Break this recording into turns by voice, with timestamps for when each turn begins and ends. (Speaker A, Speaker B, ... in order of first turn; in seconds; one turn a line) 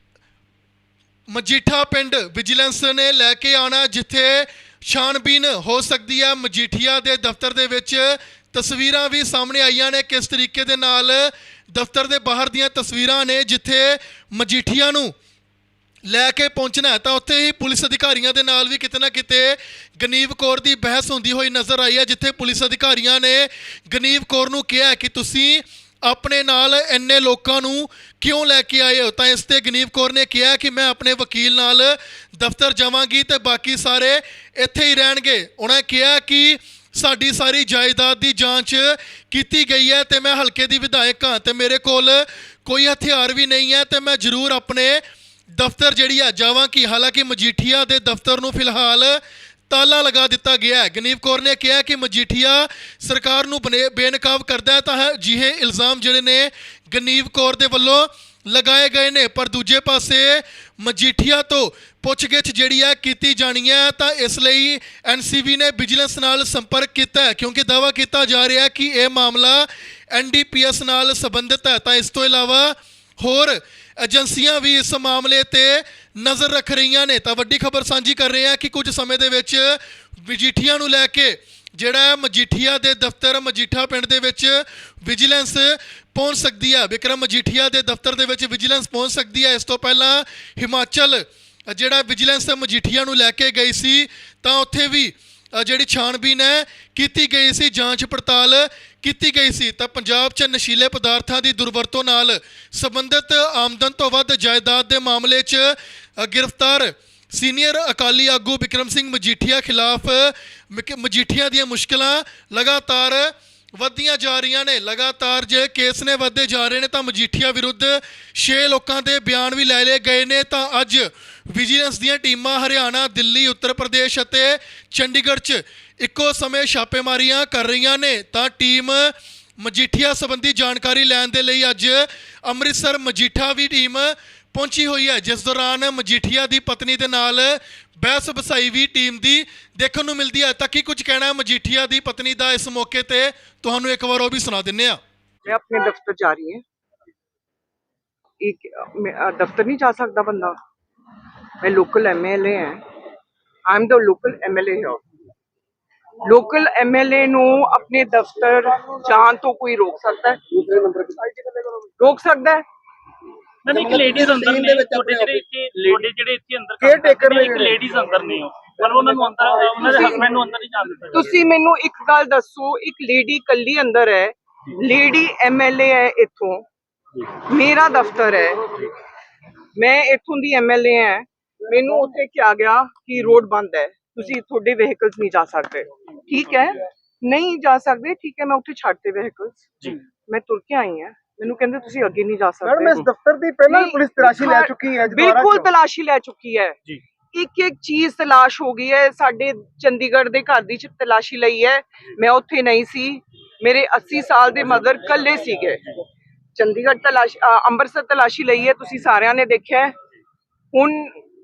Speaker A: 1.3-15.1
Speaker A: 16.1-45.0
Speaker A: 45.5-145.0
Speaker B: 145.5-146.6
Speaker B: 148.4-150.6
Speaker B: 151.6-152.8
Speaker B: 153.7-155.0
Speaker B: 156.2-160.4
Speaker C: 160.6-161.8
Speaker B: 162.0-162.6
Speaker D: 163.7-171.3
Speaker C: 163.7-165.4
Speaker C: 166.8-167.8
Speaker B: 171.1-176.7
Speaker B: 177.3-178.9
Speaker B: 179.8-193.0
Speaker C: 192.6-195.7
Speaker B: 193.7-196.8
Speaker B: 197.3-206.0
Speaker B: 206.6-209.9
Speaker B: 210.7-211.2